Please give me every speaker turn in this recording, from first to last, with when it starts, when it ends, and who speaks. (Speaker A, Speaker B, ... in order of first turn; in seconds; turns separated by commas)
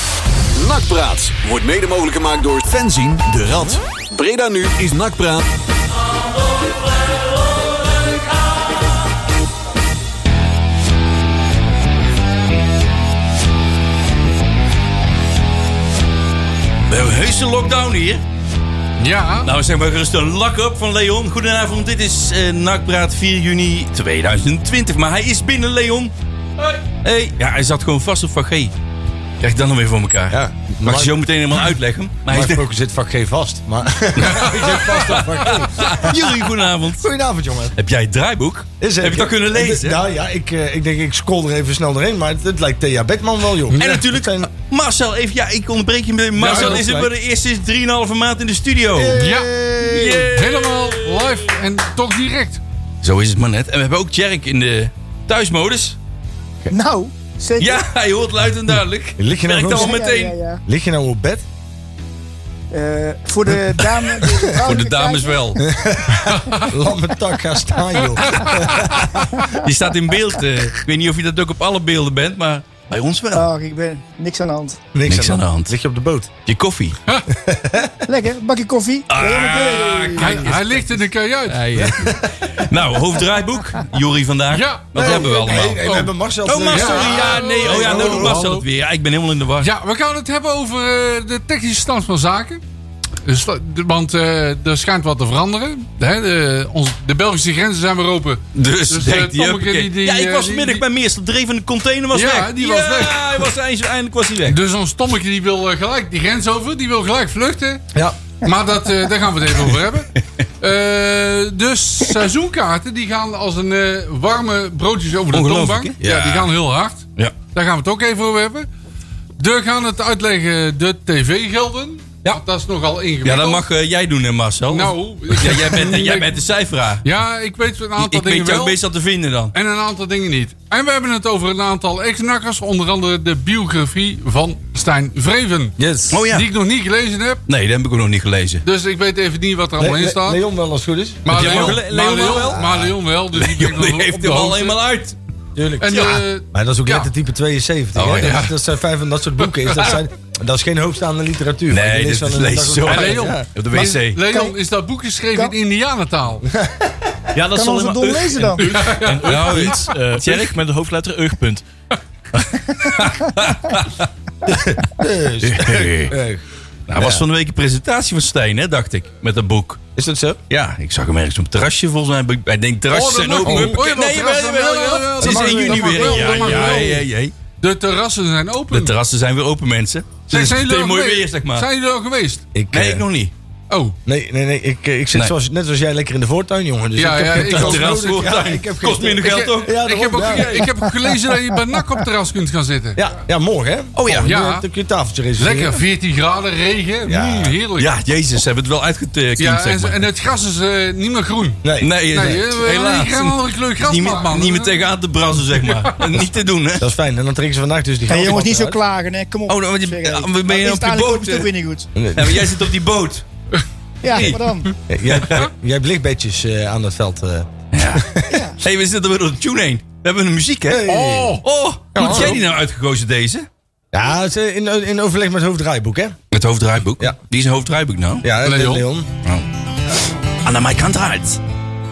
Speaker A: 0.5-5.4, Speaker B: 16.9-18.2, Speaker C: 19.0-19.5, Speaker B: 19.4-26.1, Speaker B: 27.0-28.7, Speaker B: 29.4-32.6, Speaker D: 30.3-31.2, Speaker D: 32.3-36.4, Speaker B: 34.2-37.1, Speaker C: 34.4-35.1, Speaker D: 37.0-37.8, Speaker B: 37.8-40.0, Speaker D: 38.8-44.5, Speaker B: 43.7-49.2, Speaker C: 46.4-46.9, Speaker D: 46.4-47.1, Speaker C: 49.1-49.5, Speaker E: 49.1-50.3, Speaker B: 49.8-51.5, Speaker C: 50.3-52.6, Speaker B: 53.0-56.0, Speaker E: 56.7-57.8, Speaker B: 57.6-60.3, Speaker D: 59.2-60.0, Speaker E: 59.7-60.6, Speaker D: 60.6-61.4, Speaker E: 62.7-65.6, Speaker B: 63.8-65.6, Speaker D: 65.6-68.9, Speaker B: 68.3-73.5, Speaker E: 73.3-74.8, Speaker D: 74.9-76.3, Speaker B: 75.1-75.8, Speaker B: 76.5-77.0, Speaker D: 77.3-77.9, Speaker E: 78.0-80.4, Speaker B: 79.1-85.8, Speaker C: 80.2-81.9, Speaker D: 81.8-82.2, Speaker C: 84.5-88.6, Speaker D: 84.9-88.4, Speaker B: 86.5-89.7, Speaker C: 89.6-92.6, Speaker C: 93.2-100.8, Speaker B: 98.5-104.6, Speaker C: 102.1-103.3, Speaker C: 104.5-107.8, Speaker C: 108.4-110.1, Speaker C: 110.6-118.7, Speaker B: 115.3-116.5, Speaker C: 119.4-123.6, Speaker B: 123.2-127.1, Speaker C: 124.7-126.4, Speaker C: 127.0-128.8, Speaker B: 128.0-129.5, Speaker C: 129.5-135.8, Speaker D: 135.8-136.2, Speaker B: 136.1-136.5, Speaker C: 136.3-137.4, Speaker B: 137.5-138.6, Speaker C: 138.6-140.4, Speaker D: 139.8-141.8, Speaker C: 141.2-144.8, Speaker B: 141.3-145.2, Speaker D: 145.6-153.4, Speaker C: 145.8-147.1, Speaker B: 147.9-148.4, Speaker C: 148.2-148.5, Speaker C: 149.5-150.0, Speaker B: 151.7-154.2, Speaker C: 152.9-156.4, Speaker E: 154.3-154.6, Speaker D: 156.5-156.9, Speaker F: 157.3-161.6, Speaker E: 157.5-158.6, Speaker C: 158.6-159.8, Speaker B: 159.2-160.6, Speaker B: 162.8-164.1, Speaker D: 164.4-166.4, Speaker B: 165.4-166.1, Speaker B: 166.9-169.8, Speaker D: 166.9-167.2, Speaker D: 169.9-170.4, Speaker B: 170.5-177.3, Speaker C: 172.9-177.0, Speaker D: 173.4-173.8, Speaker E: 175.2-176.8, Speaker C: 177.6-178.9, Speaker B: 178.7-181.7, Speaker C: 180.3-182.4, Speaker D: 182.5-183.0, Speaker B: 182.7-183.3, Speaker C: 183.7-183.9, Speaker D: 184.1-190.7, Speaker C: 187.0-188.2, Speaker B: 187.3-190.6, Speaker C: 189.2-193.0, Speaker D: 192.9-195.8, Speaker B: 193.9-194.3, Speaker C: 194.2-194.6, Speaker C: 195.4-197.9, Speaker D: 197.1-197.6, Speaker B: 197.8-200.1, Speaker C: 199.4-204.8, Speaker D: 201.6-202.4, Speaker B: 201.8-206.9, Speaker D: 206.8-208.8, Speaker E: 208.1-211.9, Speaker B: 209.5-211.5, Speaker D: 211.9-212.6, Speaker B: 212.1-213.2, Speaker E: 214.0-214.7, Speaker B: 214.1-214.4, Speaker D: 214.9-218.4, Speaker B: 215.1-215.4, Speaker B: 217.7-218.1, Speaker E: 218.3-218.6, Speaker B: 218.6-220.8, Speaker D: 220.7-221.4, Speaker C: 220.8-221.4, Speaker B: 221.4-223.5, Speaker D: 221.9-222.4, Speaker C: 222.0-222.4, Speaker D: 223.9-226.2, Speaker B: 226.3-228.3, Speaker D: 228.2-229.1, Speaker C: 228.4-228.8, Speaker B: 230.4-231.4